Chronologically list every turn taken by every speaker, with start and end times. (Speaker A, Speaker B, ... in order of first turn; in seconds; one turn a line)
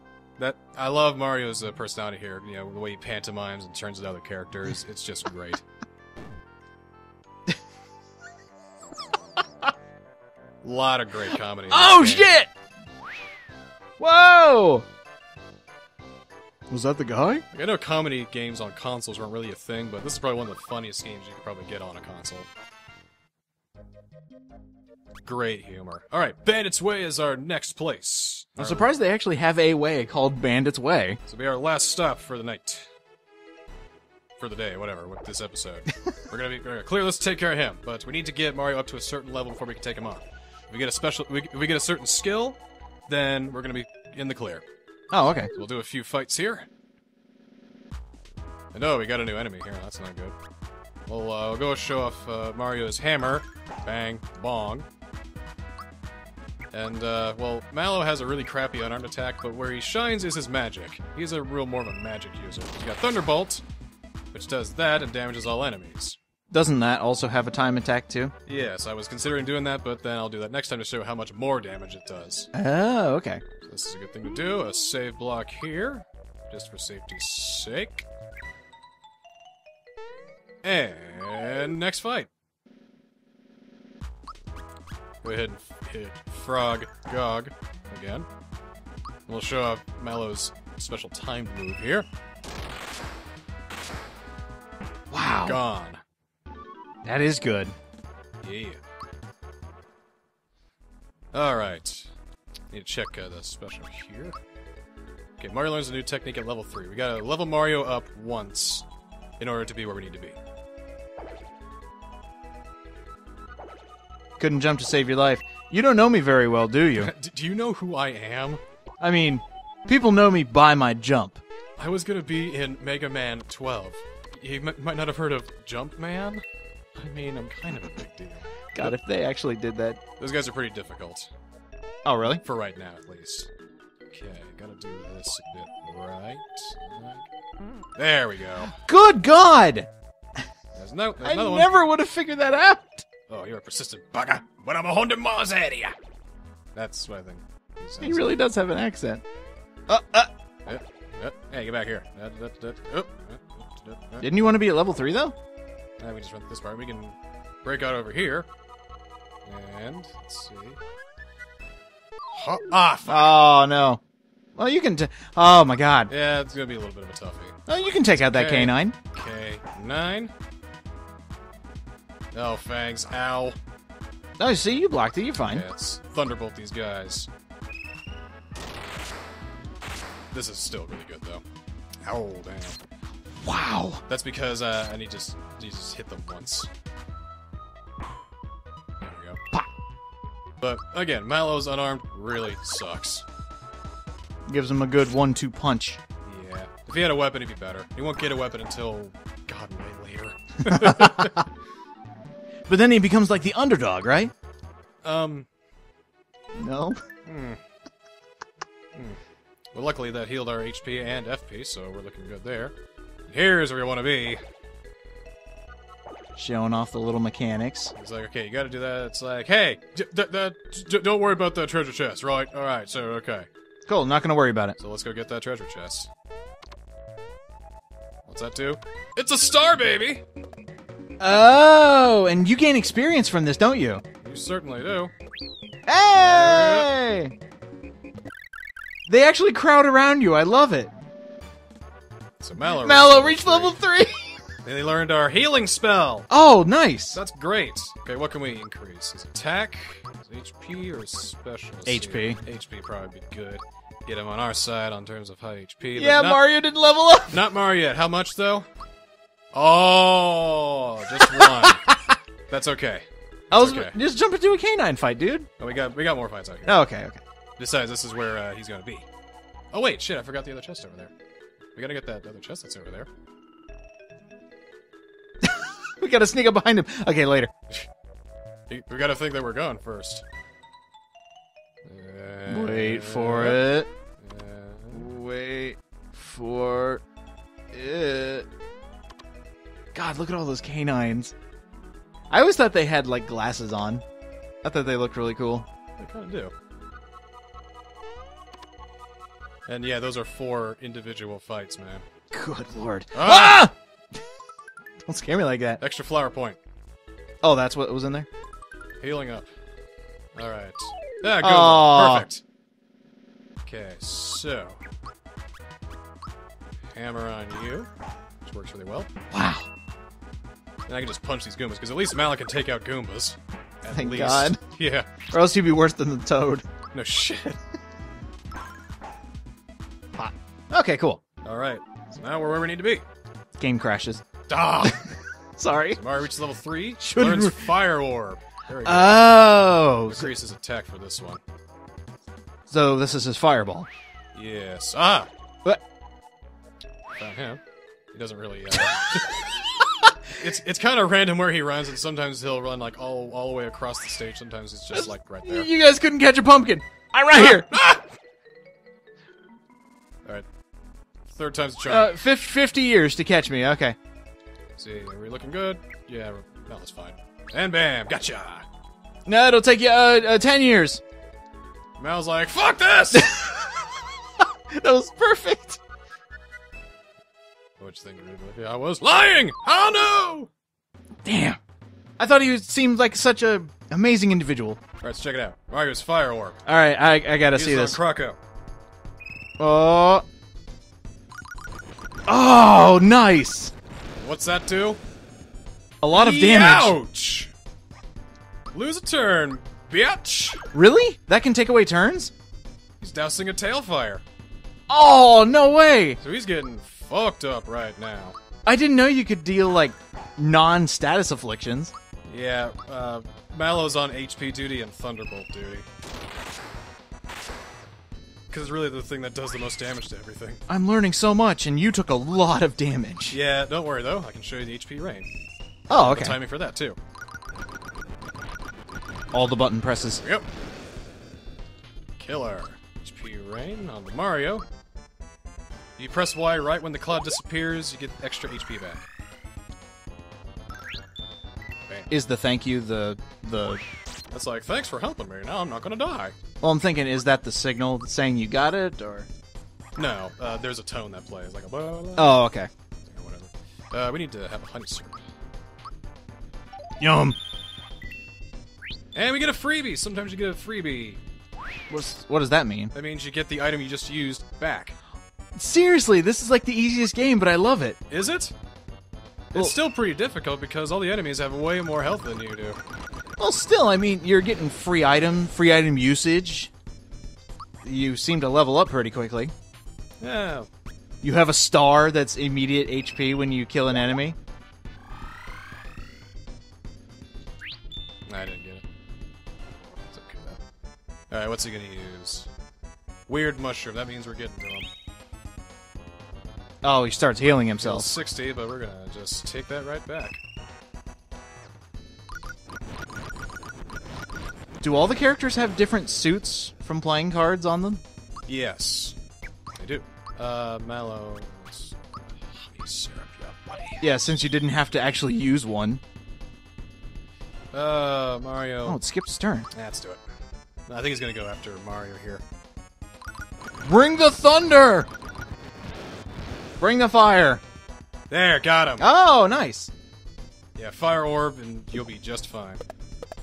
Speaker A: 0.4-5.6
Speaker A: 10.6-12.3
Speaker B: 11.7-12.5
Speaker B: 14.0-14.8
Speaker B: 16.7-17.4
Speaker A: 17.5-22.5
Speaker A: 25.2-28.9
Speaker B: 28.6-31.2
Speaker A: 31.3-32.9
Speaker A: 34.4-44.6
Speaker B: 45.1-45.5
Speaker A: 45.2-46.7
Speaker A: 48.7-50.3
Speaker A: 51.1-54.9
Speaker A: 56.7-63.6
Speaker A: 64.3-66.2
Speaker B: 66.5-68.3
Speaker A: 68.5-72.5
Speaker B: 72.5-73.4
Speaker A: 73.6-78.1
Speaker A: 80.6-82.3
Speaker A: 85.2-88.3
Speaker A: 89.3-92.1
Speaker B: 95.1-95.6
Speaker A: 95.4-96.0
Speaker B: 97.0-97.8
Speaker A: 98.4-98.8
Speaker A: 101.3-102.1
Speaker A: 102.7-104.3
Speaker A: 105.4-108.8
Speaker A: 109.4-110.4
Speaker B: 114.4-117.1
Speaker A: 117.0-118.6
Speaker B: 119.0-121.4
Speaker A: 121.8-126.4
Speaker A: 127.0-128.9
Speaker B: 128.7-130.0
Speaker A: 130.2-131.3
Speaker B: 132.0-132.4
Speaker A: 132.4-133.5
Speaker A: 134.1-137.3
Speaker A: 137.9-138.8
Speaker B: 138.8-139.9
Speaker A: 140.7-141.7
Speaker B: 141.2-143.1
Speaker A: 143.3-145.9
Speaker A: 146.7-148.3
Speaker B: 148.0-149.2
Speaker B: 149.9-150.3
Speaker A: 150.7-154.4
Speaker B: 154.2-155.3
Speaker A: 156.0-158.5
Speaker A: 159.4-160.8
Speaker A: 162.3-163.4
Speaker B: 163.1-164.0
Speaker B: 164.6-166.1
Speaker A: 166.1-167.6
Speaker B: 167.7-168.9
Speaker A: 168.2-170.3
Speaker A: 172.3-173.6
Speaker B: 174.4-175.6
Speaker A: 175.4-177.3
Speaker A: 180.3-181.4
Speaker A: 182.0-182.8
Speaker B: 183.4-184.0
Speaker A: 184.1-186.7
Speaker A: 189.0-189.4
Speaker A: 190.6-193.2
Speaker B: 194.5-196.0
Speaker A: 196.2-201.4
Speaker B: 200.7-201.4
Speaker B: 202.7-204.3
Speaker A: 205.0-205.5
Speaker B: 206.6-207.0
Speaker A: 207.2-207.6
Speaker A: 209.7-212.7
Speaker A: 213.3-214.4
Speaker B: 216.3-217.9
Speaker A: 217.9-223.5
Speaker B: 223.8-224.8
Speaker A: 224.8-226.1
Speaker A: 228.3-230.2
Speaker B: 231.2-234.0
Speaker A: 234.2-235.1
Speaker B: 235.8-237.3
Speaker A: 236.2-236.9
Speaker B: 239.1-240.9
Speaker A: 242.4-243.8
Speaker B: 242.7-244.4
Speaker A: 244.6-246.3
Speaker B: 246.3-247.2
Speaker A: 247.1-256.4
Speaker B: 251.8-252.4
Speaker B: 255.9-257.4
Speaker A: 257.3-258.7
Speaker A: 259.5-261.8
Speaker B: 261.2-262.2
Speaker A: 262.5-263.9
Speaker B: 263.5-265.5
Speaker A: 265.6-266.8
Speaker B: 266.7-267.2
Speaker A: 267.6-269.1
Speaker A: 269.7-271.1
Speaker A: 271.7-273.1
Speaker B: 275.4-277.5
Speaker A: 278.7-280.2
Speaker A: 281.8-285.0
Speaker B: 282.5-283.9
Speaker B: 284.9-287.0
Speaker B: 287.7-288.5
Speaker B: 289.9-291.3
Speaker B: 292.3-294.0
Speaker B: 294.6-295.7
Speaker A: 296.0-296.5
Speaker A: 299.7-302.0
Speaker B: 302.3-303.7
Speaker A: 303.1-303.7
Speaker B: 305.1-305.8
Speaker A: 305.8-306.6
Speaker B: 307.4-308.3
Speaker A: 309.0-309.5
Speaker A: 310.3-312.4
Speaker B: 311.4-312.3
Speaker A: 313.6-314.8
Speaker A: 316.9-317.9
Speaker A: 318.4-319.1
Speaker B: 319.3-319.7
Speaker A: 320.9-325.1
Speaker B: 323.9-324.6
Speaker B: 325.3-326.6
Speaker A: 326.9-327.6
Speaker B: 330.1-331.2
Speaker A: 331.4-333.0
Speaker B: 333.6-334.2
Speaker A: 334.5-335.1
Speaker B: 334.8-336.0
Speaker A: 335.9-341.4
Speaker B: 337.0-337.7
Speaker B: 338.8-340.3
Speaker B: 342.7-343.9
Speaker A: 344.3-345.3
Speaker A: 347.1-347.6
Speaker A: 348.1-349.5
Speaker A: 350.3-355.7
Speaker B: 354.9-357.7
Speaker A: 357.3-358.1
Speaker A: 361.3-362.1
Speaker B: 361.9-364.0
Speaker A: 364.8-368.6
Speaker B: 369.2-371.0
Speaker A: 372.0-373.4
Speaker B: 373.1-373.9
Speaker B: 374.7-375.8
Speaker A: 377.8-380.5
Speaker B: 381.2-381.6
Speaker B: 382.2-384.8
Speaker A: 385.0-386.6
Speaker B: 386.6-388.0
Speaker A: 387.5-388.4
Speaker B: 389.6-390.2
Speaker B: 392.3-393.7
Speaker A: 394.2-395.0
Speaker B: 396.0-397.0
Speaker A: 396.1-397.5
Speaker A: 398.7-400.6
Speaker B: 400.7-402.3
Speaker A: 403.0-404.2
Speaker B: 404.9-406.2
Speaker A: 406.2-408.4
Speaker B: 408.6-411.9
Speaker A: 412.3-415.9
Speaker A: 418.5-420.6
Speaker B: 420.7-423.4
Speaker A: 423.3-425.3
Speaker B: 425.9-426.4
Speaker A: 425.9-427.0
Speaker B: 429.3-430.2
Speaker A: 432.2-434.6
Speaker A: 436.0-439.1
Speaker B: 442.1-443.8
Speaker A: 444.3-446.3
Speaker B: 446.6-449.3
Speaker A: 449.9-452.4
Speaker B: 452.2-452.7
Speaker A: 453.1-455.2
Speaker B: 457.0-457.4
Speaker A: 459.1-461.2
Speaker B: 461.9-462.9
Speaker A: 462.9-464.9
Speaker B: 465.5-468.0
Speaker A: 468.1-468.5
Speaker A: 469.5-472.8
Speaker B: 473.4-476.7
Speaker B: 477.8-479.5
Speaker A: 480.2-480.7
Speaker B: 481.2-484.4
Speaker A: 488.3-488.8
Speaker A: 490.1-490.6
Speaker A: 491.3-492.5
Speaker A: 493.3-494.9
Speaker B: 496.8-498.1
Speaker A: 497.8-500.4
Speaker B: 504.8-508.0
Speaker A: 508.5-509.2
Speaker A: 509.8-514.0
Speaker B: 514.0-516.0
Speaker A: 517.7-519.0
Speaker B: 518.9-519.7
Speaker A: 519.7-520.2
Speaker A: 520.9-522.4
Speaker B: 523.8-525.1
Speaker B: 526.8-527.6
Speaker A: 528.3-529.0
Speaker B: 529.0-529.9
Speaker A: 530.8-532.8